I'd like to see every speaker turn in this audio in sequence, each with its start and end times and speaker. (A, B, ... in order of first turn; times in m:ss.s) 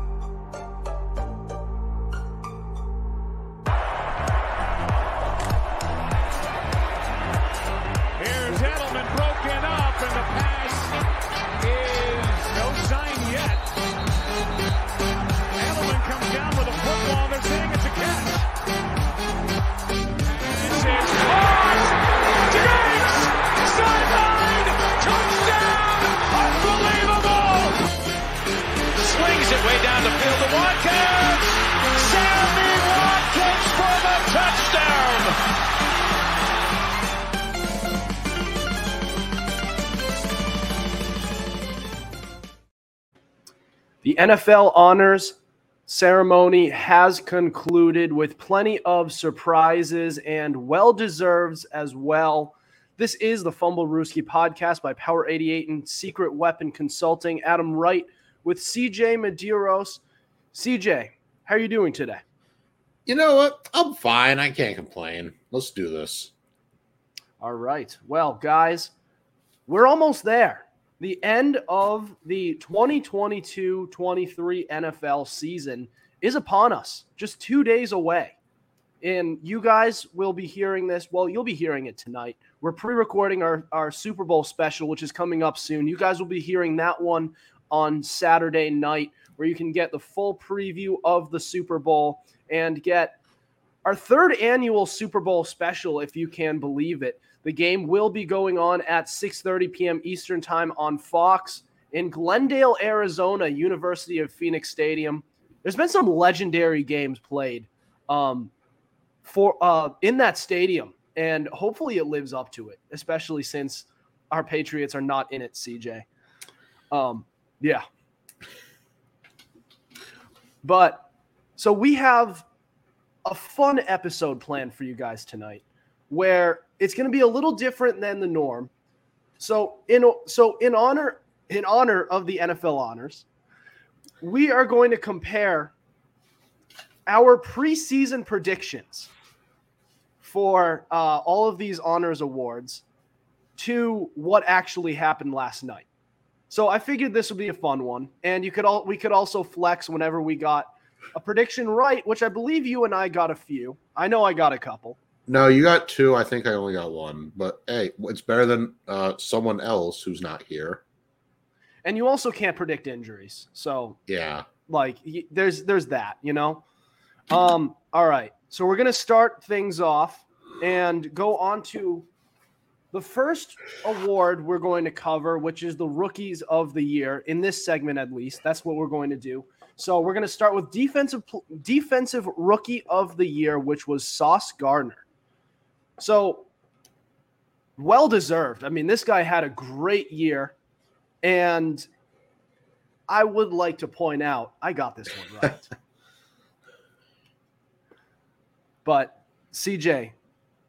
0:08.2-0:11.0 A
0:11.6-0:13.7 A
0:15.6-0:18.5 A
0:20.5-0:27.8 A
0:29.0-0:35.4 A
0:44.0-1:00.0 B
1:00.5-1:02.2 B
1:03.1-1:06.3 C
1:07.4-1:08.9 B
1:09.7-1:18.4 B
1:19.0-1:33.2 B
1:33.8-1:48.5 B
1:49.2-1:56.1 B
1:56.9-1:57.8 B
2:00.6-2:01.1 B
2:01.6-2:02.4 B
2:03.2-2:08.7 B
2:09.4-2:13.2 B
2:14.2-2:15.7 B
2:17.1-2:19.1 B
2:20.2-2:22.8 B
2:23.6-2:25.9 B
2:26.5-2:35.0 B
2:35.3-2:40.8 C
2:41.8-2:44.0 B
2:44.1-2:44.5 C
2:44.7-2:46.6 B
2:47.3-2:52.1 B
2:52.9-3:05.0 B
3:06.0-3:06.5 B
3:07.8-3:10.6 B
3:11.2-3:11.9 B
3:13.1-3:15.7 B
3:18.8-3:20.2 B